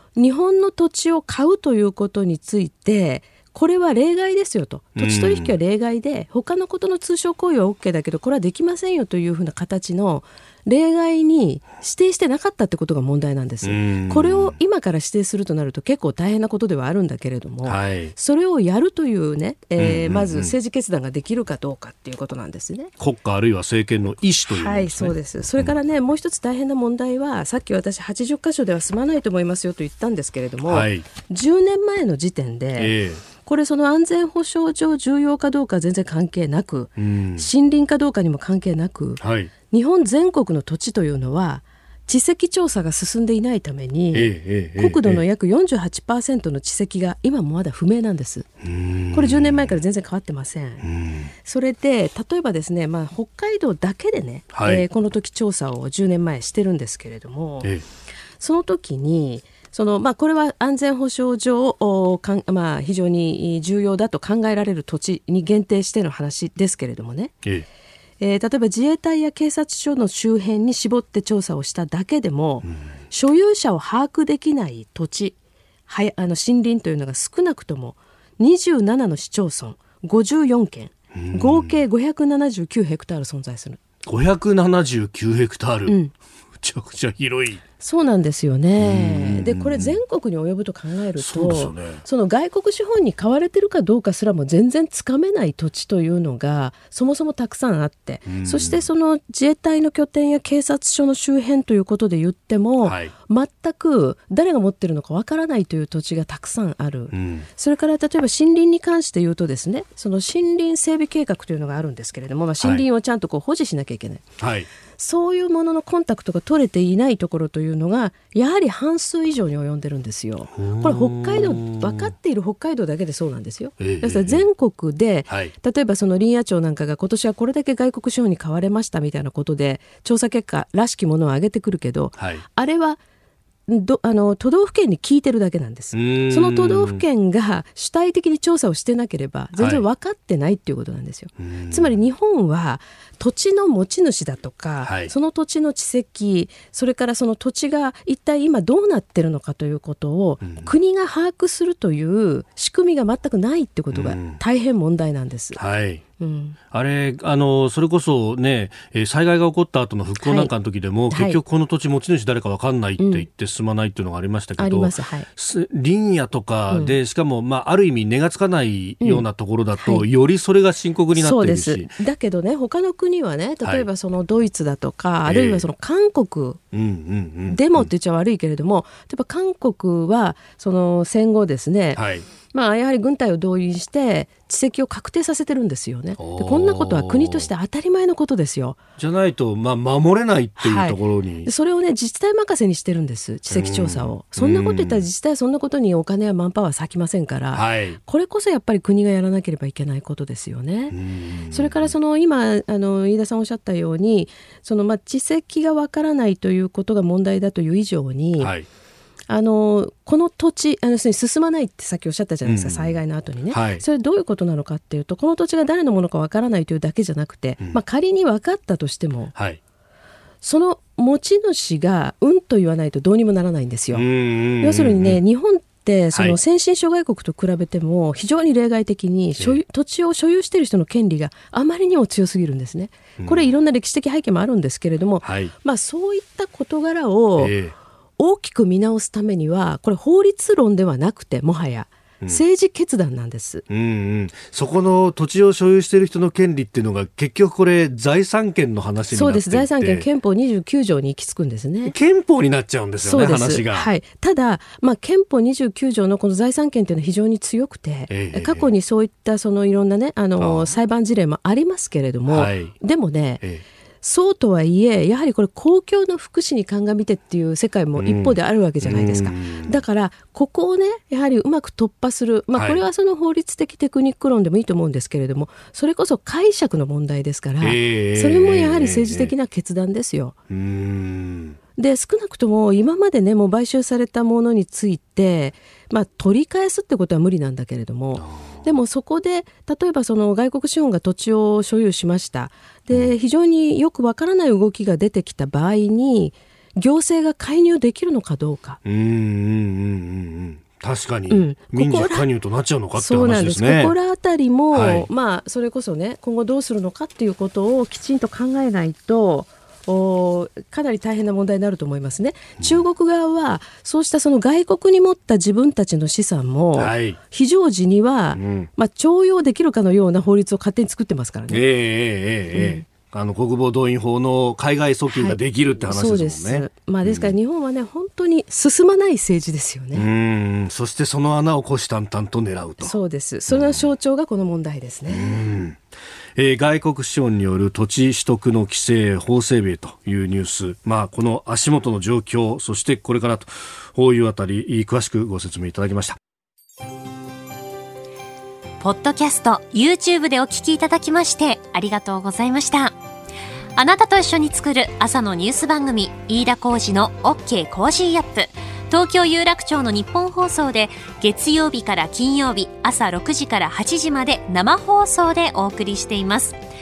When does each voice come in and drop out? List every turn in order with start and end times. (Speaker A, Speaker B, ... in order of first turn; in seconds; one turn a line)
Speaker A: 0.2-22.9
Speaker B: 5.0-5.5
Speaker B: 13.6-14.6
Speaker B: 17.6-18.1
Speaker B: 19.8-20.5
Speaker B: 23.0-25.7
Speaker A: 24.4-48.5
Speaker B: 30.7-31.1
Speaker B: 32.8-33.2
Speaker B: 37.0-37.5
Speaker B: 39.2-39.5
Speaker B: 44.1-45.2
Speaker B: 48.6-49.8
Speaker A: 49.1-50.9
Speaker B: 50.8-51.3
Speaker A: 51.4-57.7
Speaker B: 54.5-54.9
Speaker A: 58.4-67.3
Speaker A: 68.2-75.4
Speaker B: 72.7-72.9
Speaker A: 75.9-83.8
Speaker B: 81.1-81.8
Speaker B: 84.1-86.0
Speaker A: 85.9-86.1
Speaker B: 86.6-87.6
Speaker A: 87.8-114.3
Speaker B: 88.8-90.0
Speaker B: 91.2-92.0
Speaker B: 98.3-98.8
Speaker B: 102.8-103.1
Speaker B: 107.1-107.5
Speaker B: 114.4-114.7
Speaker A: 115.0-133.0
Speaker B: 120.5-122.1
Speaker B: 123.8-124.4
Speaker B: 132.2-132.4
Speaker A: 133.7-155.6
Speaker B: 135.9-137.0
Speaker B: 139.6-139.8
Speaker B: 141.4-142.0
Speaker B: 144.8-145.1
Speaker B: 150.4-150.7
Speaker B: 153.9-154.4
Speaker B: 155.6-156.0
Speaker A: 156.2-156.6
Speaker B: 156.7-171.9
Speaker A: 160.2-160.5
Speaker A: 161.1-161.4
Speaker A: 163.0-163.3
Speaker A: 164.6-165.3
Speaker A: 166.7-166.9
Speaker A: 169.8-170.1
Speaker A: 171.1-176.6
Speaker B: 175.3-175.7
Speaker B: 176.7-177.9
Speaker A: 177.5-188.8
Speaker B: 181.9-182.3
Speaker B: 186.2-187.5
Speaker B: 189.0-191.5
Speaker A: 190.6-201.0
Speaker B: 193.5-195.1
Speaker B: 197.5-198.0
Speaker B: 200.9-201.9
Speaker A: 201.5-208.5
Speaker B: 208.4-208.7
Speaker A: 209.3-219.3
Speaker B: 212.4-213.0
Speaker B: 213.5-213.8
Speaker A: 220.4-237.5
Speaker B: 223.9-225.2
Speaker B: 233.2-233.5
Speaker B: 235.2-235.5
Speaker B: 237.4-237.8
Speaker A: 238.2-243.7
Speaker B: 243.7-250.1
Speaker A: 249.1-251.9
Speaker B: 251.8-253.9
Speaker A: 253.0-263.4
Speaker B: 258.1-258.7
Speaker B: 260.4-260.7
Speaker B: 262.3-262.7
Speaker A: 264.0-280.4
Speaker B: 268.0-269.8
Speaker B: 272.5-272.8
Speaker B: 277.6-279.3
Speaker B: 280.5-281.6
Speaker A: 281.8-298.8
Speaker B: 288.1-288.7
Speaker B: 298.8-303.9
Speaker A: 301.3-302.3
Speaker A: 303.0-321.6
Speaker B: 304.7-305.1
Speaker B: 312.6-312.8
Speaker B: 316.8-317.2
Speaker B: 318.4-318.7
Speaker B: 321.5-327.4
Speaker A: 322.5-322.9
Speaker A: 325.1-330.1
Speaker B: 329.9-332.9
Speaker A: 332.8-335.4
Speaker B: 333.5-333.9
Speaker B: 335.1-335.8
Speaker B: 336.4-346.2
Speaker C: 348.8-352.9
Speaker C: 353.8-366.6